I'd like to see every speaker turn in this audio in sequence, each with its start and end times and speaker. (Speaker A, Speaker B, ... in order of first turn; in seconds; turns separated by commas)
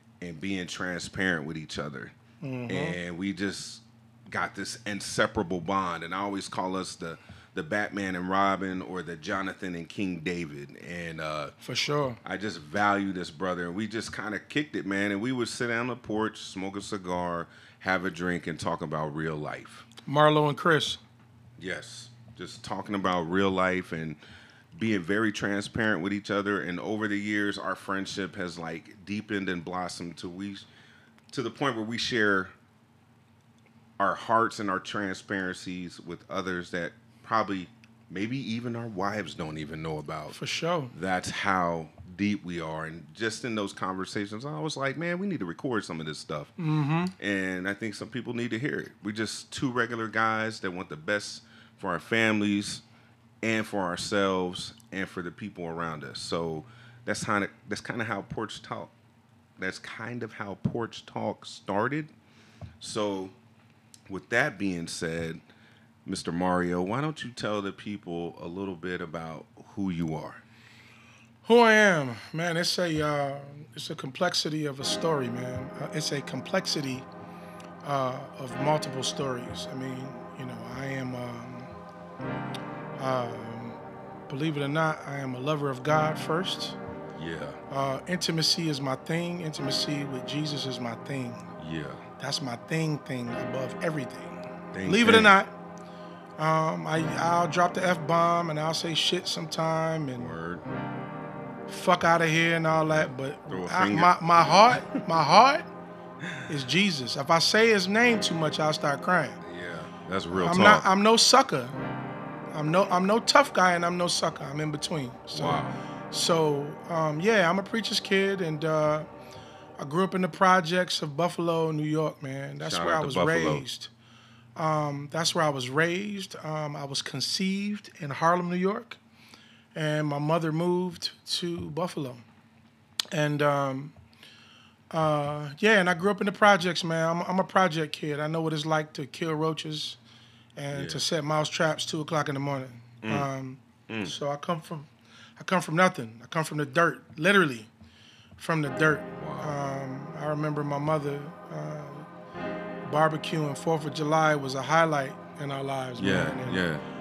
Speaker A: 0.2-2.1, Speaker B: 2.4-3.0, Speaker A: 2.7-11.6, Speaker B: 11.6-12.2, Speaker A: 12.2-19.9, Speaker B: 20.1-21.0, Speaker A: 21.6-24.2, Speaker A: 24.8-30.7, Speaker A: 31.3-32.5, Speaker A: 34.0-40.4, Speaker B: 40.3-40.9, Speaker A: 40.9-46.5, Speaker B: 46.6-47.2, Speaker A: 47.2-52.8, Speaker A: 53.4-58.9, Speaker A: 59.6-62.1, Speaker A: 62.8-63.4, Speaker A: 64.1-65.4, Speaker A: 66.1-70.4, Speaker B: 71.5-77.1, Speaker B: 77.8-81.7, Speaker B: 83.0-83.8, Speaker B: 84.3-86.8, Speaker A: 87.2-87.6, Speaker B: 87.7-91.5, Speaker A: 91.6-92.0, Speaker B: 92.2-95.5, Speaker A: 94.7-95.3, Speaker B: 96.4-100.3, Speaker A: 100.2-100.7, Speaker B: 101.7-105.7, Speaker A: 102.9-104.2, Speaker A: 104.8-105.0, Speaker B: 106.5-109.4, Speaker A: 109.4-110.9, Speaker B: 110.3-111.8, Speaker B: 112.5-119.1, Speaker A: 115.3-115.8, Speaker B: 119.8-123.9, Speaker A: 122.6-123.7, Speaker B: 124.6-129.0, Speaker B: 129.7-132.2, Speaker B: 133.1-133.9, Speaker B: 134.9-140.0, Speaker B: 140.6-147.7, Speaker A: 140.7-141.0, Speaker A: 143.0-143.3, Speaker A: 143.9-144.2, Speaker B: 148.4-152.1, Speaker A: 149.2-149.6, Speaker B: 152.8-156.6, Speaker A: 156.0-156.8